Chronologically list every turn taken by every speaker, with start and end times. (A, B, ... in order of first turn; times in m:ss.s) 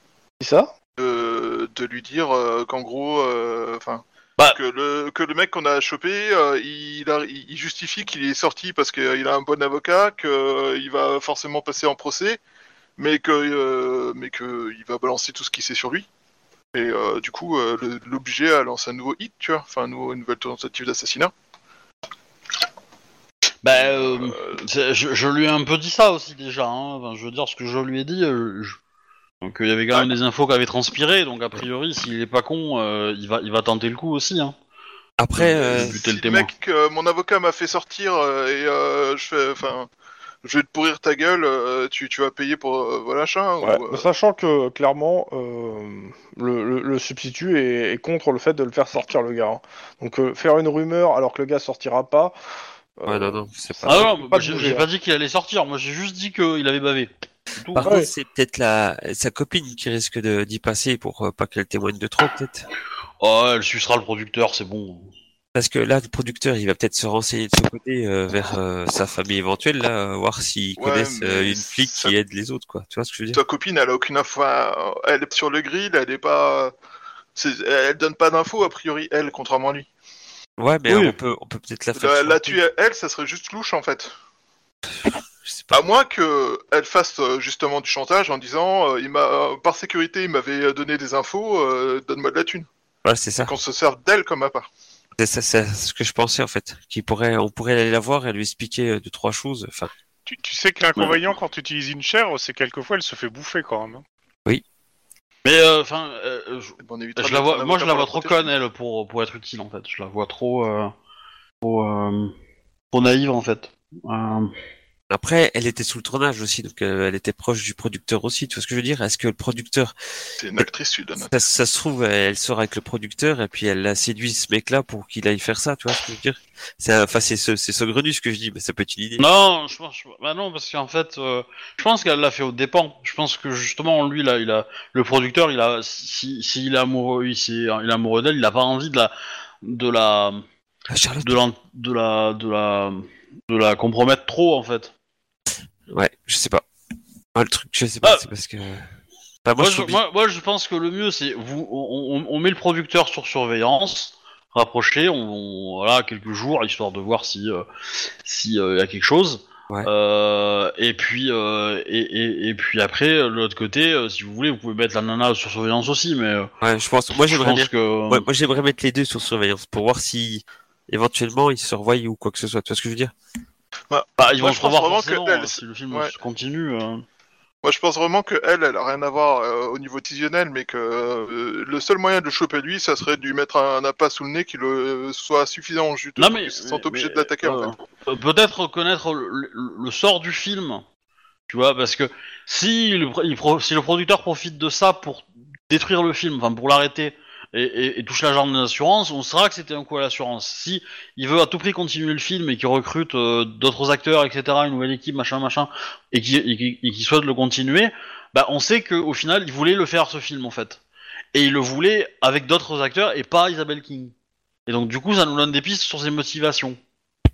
0:00.4-0:00.7 A
0:01.0-0:12.4 B
0:13.0-0:16.1 B
0:16.7-0:21.3 B
0:23.6-0:28.8 C
0:23.7-0:24.6 B
0:29.4-0:34.6 C
0:35.2-0:36.0 D
0:35.4-0:36.5 C
0:35.8-0:39.9 B
0:40.4-0:44.1 B
0:43.6-0:52.4 A
0:53.0-0:54.9 A
0:53.1-0:54.1 D
0:53.9-0:57.9 C
0:57.7-1:02.7 D
0:57.8-0:58.1 A
1:03.2-1:05.1 C
1:05.6-1:13.4 D
1:10.8-1:12.2 B
1:13.3-1:16.7 B
1:17.4-1:19.9 B
1:20.6-1:22.6 D
1:20.9-1:21.2 C
1:22.0-1:24.1 B
1:25.0-1:25.8 D
1:25.7-1:32.7 B
1:33.0-1:33.5 D
1:33.4-1:34.7 B
1:35.2-1:39.9 D
1:40.3-1:44.0 E
1:45.4-1:50.9 C
1:46.8-1:48.5 B
1:51.6-1:52.4 C
1:52.9-1:54.5 C
1:55.1-1:59.9 D
2:00.4-2:01.3 B
2:01.2-2:09.2 D
2:09.2-2:20.4 C
2:20.9-2:21.4 D
2:21.2-2:24.9 C
2:25.9-2:26.6 D
2:27.4-2:28.9 D
2:29.4-2:30.0 D
2:29.6-2:37.7 C
2:38.2-2:46.5 C
2:46.6-2:53.1 D
2:47.2-2:48.3 C
2:53.9-2:56.1 B
2:54.2-2:57.0 C
2:57.6-3:07.7 B
3:06.2-3:10.8 C
3:11.5-3:30.8 C
3:31.3-3:34.1 C
3:34.7-3:36.8 C